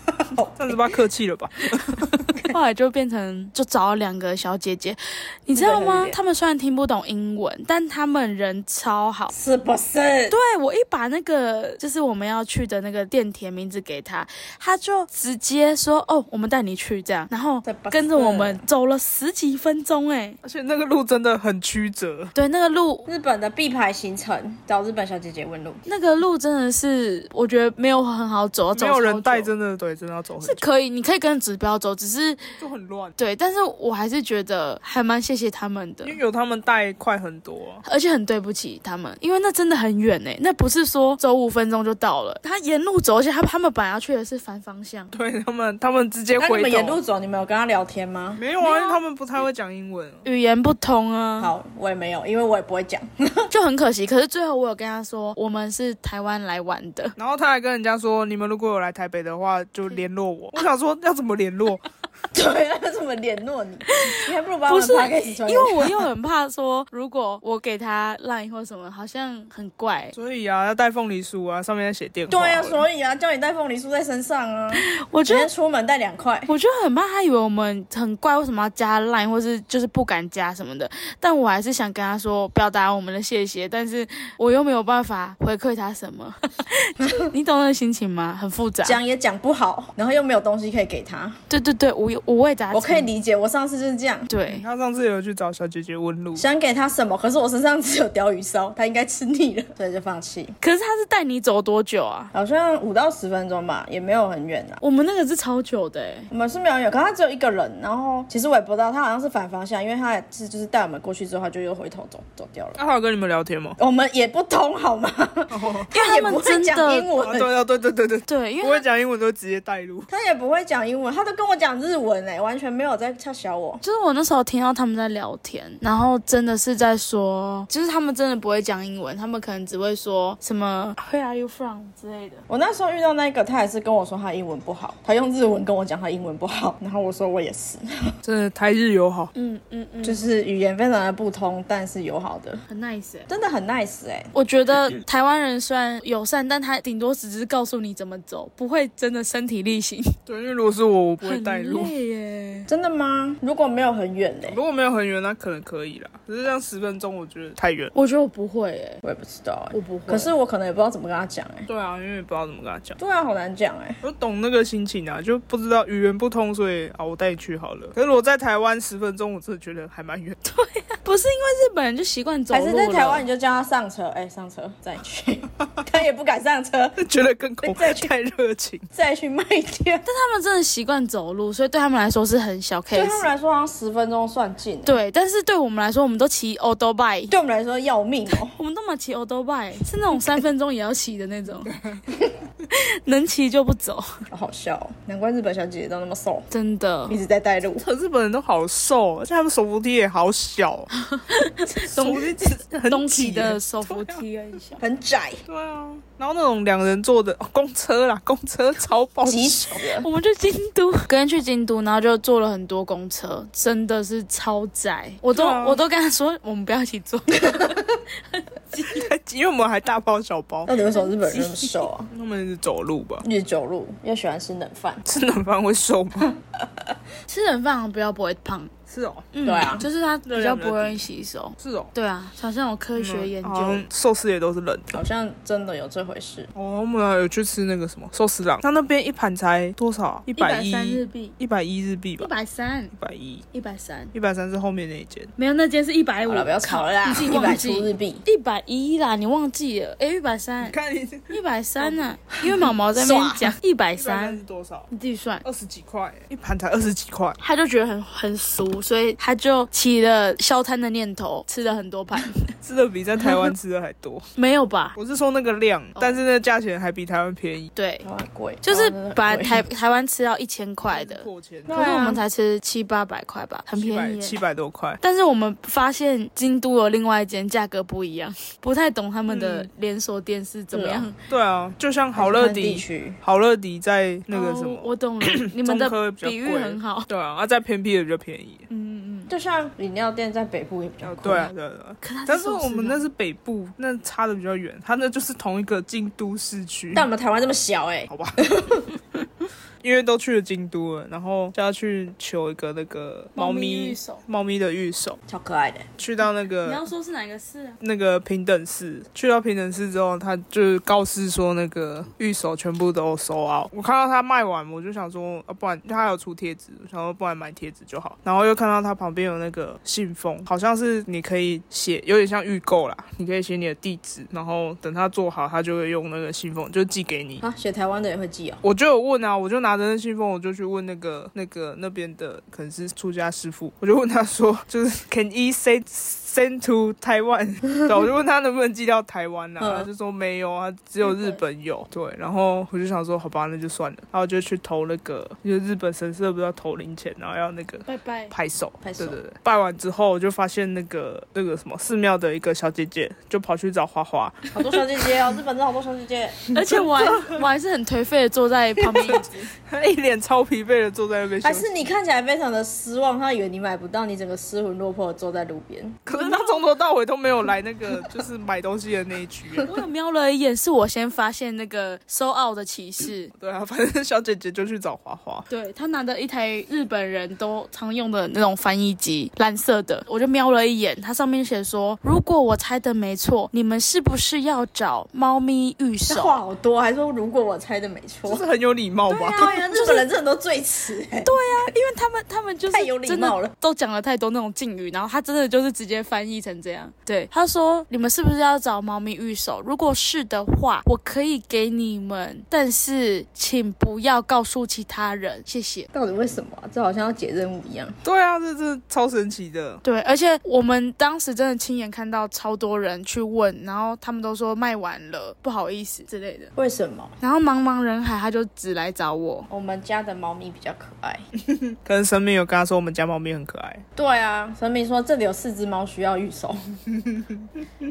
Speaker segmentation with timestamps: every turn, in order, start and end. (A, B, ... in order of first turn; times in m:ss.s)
0:00.2-0:00.9 A
0:00.6-0:02.2 B
0:01.8-0:09.3 C
0:05.6-0:06.2 A
0:09.3-0:10.4 A
0:10.3-0:20.4 C
0:17.6-0:18.6 A
0:20.4-0:22.3 B
0:22.3-0:23.1 C
0:23.1-0:25.8 A
0:25.9-0:29.5 C
0:28.7-0:30.7 B
0:30.4-0:32.4 C
0:32.6-0:33.2 B
0:33.2-0:36.2 C
0:36.0-0:37.8 B
0:37.8-0:45.1 C
0:45.1-0:47.0 B
0:46.4-0:48.4 A
0:48.4-0:50.2 B
0:48.6-0:49.0 C
0:50.2-0:51.5 C
0:51.4-0:53.5 A
0:53.5-0:57.2 C
0:57.2-1:01.8 B
1:02.3-1:06.1 A
1:03.9-1:10.2 C
1:10.1-1:12.8 B
1:12.3-1:16.5 A
1:14.7-1:15.5 C
1:16.5-1:29.0 C
1:28.8-1:31.4 A
1:31.5-1:33.1 C
1:32.7-1:34.3 A
1:34.3-1:34.6 C
1:34.5-1:36.5 B
1:36.4-1:40.6 A
1:40.6-1:42.3 C
1:42.3-1:44.8 A
1:44.8-1:46.3 C
1:46.3-1:52.8 A
1:52.8-1:53.8 B
1:53.8-1:57.5 A
1:55.5-1:55.9 B
1:55.9-1:57.1 C
1:57.2-2:00.1 B
1:58.3-1:58.8 C
2:00.1-2:03.8 A
2:03.8-2:12.4 C
2:12.5-2:18.1 A
2:18.2-2:19.3 B
2:19.4-2:20.2 C
2:20.0-2:22.6 A
2:22.7-2:23.3 C
2:23.3-2:24.3 A
2:24.3-2:30.1 C
2:30.3-2:31.9 B
2:31.2-2:32.7 C
2:32.7-2:34.6 A
2:34.5-2:37.9 B
2:37.9-2:39.0 C
2:39.0-2:41.7 A
2:39.7-2:40.3 C
2:41.7-2:43.0 B
2:43.0-2:44.0 A
2:44.0-2:50.4 B
2:50.4-2:53.2 C
2:52.5-2:57.0 A
2:57.0-2:58.9 B
2:57.6-2:58.1 A
2:58.9-3:00.0 A
3:00.0-3:03.3 C
3:02.9-3:05.0 A
3:04.8-3:07.3 C
3:07.3-3:08.6 A
3:08.4-3:11.8 C
3:12.7-3:14.1 C
3:14.3-3:16.5 A
3:16.5-3:17.2 C
3:17.1-3:17.8 A
3:17.8-3:20.9 B
3:21.0-3:24.8 C
3:21.9-3:24.2 B
3:24.8-3:25.4 A
3:25.5-3:29.8 B
3:29.3-3:30.1 A
3:29.9-3:39.1 C
3:35.3-3:35.8 B
3:37.4-3:37.8 A
3:38.9-3:40.8 B
3:40.7-3:42.1 A
3:41.3-3:43.2 B
3:43.2-3:45.0 A
3:45.0-3:46.3 B
3:47.3-3:48.7 C
3:48.9-3:49.3 B
3:49.3-3:53.8 C
3:49.4-3:49.9 A
3:50.3-3:51.0 B
3:51.6-3:51.9 B
3:53.0-3:55.0 B
3:54.9-3:56.5 A
3:56.6-4:02.3 B
4:00.4-4:01.3 C
4:02.2-4:02.9 C
4:02.9-4:03.4 B
4:03.5-4:04.1 C
4:04.1-4:05.3 B
4:05.4-4:10.8 C
4:06.2-4:08.2 A
4:10.6-4:12.1 B
4:11.3-4:15.4 C
4:12.4-4:13.5 A
4:14.0-4:14.9 B
4:15.4-4:17.4 B
4:17.4-4:22.4 C
4:22.6-4:24.3 B
4:23.2-4:23.4 C
4:24.4-4:25.0 C
4:25.0-4:27.7 B
4:27.8-4:28.0 C
4:28.0-4:29.6 A
4:28.6-4:34.4 C
4:30.9-4:31.8 B
4:31.7-4:32.2 A
4:33.7-4:35.0 B
4:35.0-4:41.2 C
4:39.3-4:39.7 B
4:40.7-4:41.1 A
4:41.3-4:48.7 B
4:42.2-4:43.2 A
4:44.3-4:47.1 C
4:48.7-4:49.3 C
4:49.3-4:51.5 A
4:51.0-4:57.1 B
4:52.0-4:53.0 C
4:56.9-4:58.9 A
4:58.1-4:58.4 B
4:59.8-5:05.2 B
5:03.4-5:04.2 C
5:05.3-5:05.9 A
5:06.0-5:06.8 B
5:06.6-5:07.8 C
5:07.8-5:27.4 B
5:27.4-5:28.6 A
5:28.6-5:54.8 B
5:39.6-5:39.9 A
5:41.0-5:41.4 C
5:47.9-5:48.3 C
5:48.8-5:49.2 A
5:54.5-5:56.5 A
5:56.5-5:59.5 C
5:56.7-5:57.4 B
5:59.0-6:01.8 B
6:01.4-6:06.0 A
6:06.1-6:09.7 B
6:06.1-6:06.5 C
6:09.6-6:13.3 C
6:13.4-6:15.5 B
6:15.5-6:26.4 C
6:26.1-6:28.5 A
6:28.3-6:29.5 B
6:29.1-6:30.1 C
6:29.3-6:31.7 A
6:31.2-6:45.9 C
6:32.7-6:33.5 A
6:45.9-6:48.0 A
6:48.0-6:49.8 B
6:49.8-6:56.5 C
6:56.6-6:57.1 A
6:57.2-6:59.5 C
6:59.5-7:01.2 A
7:01.4-7:03.8 B
7:04.0-7:06.6 A
7:06.9-7:07.6 B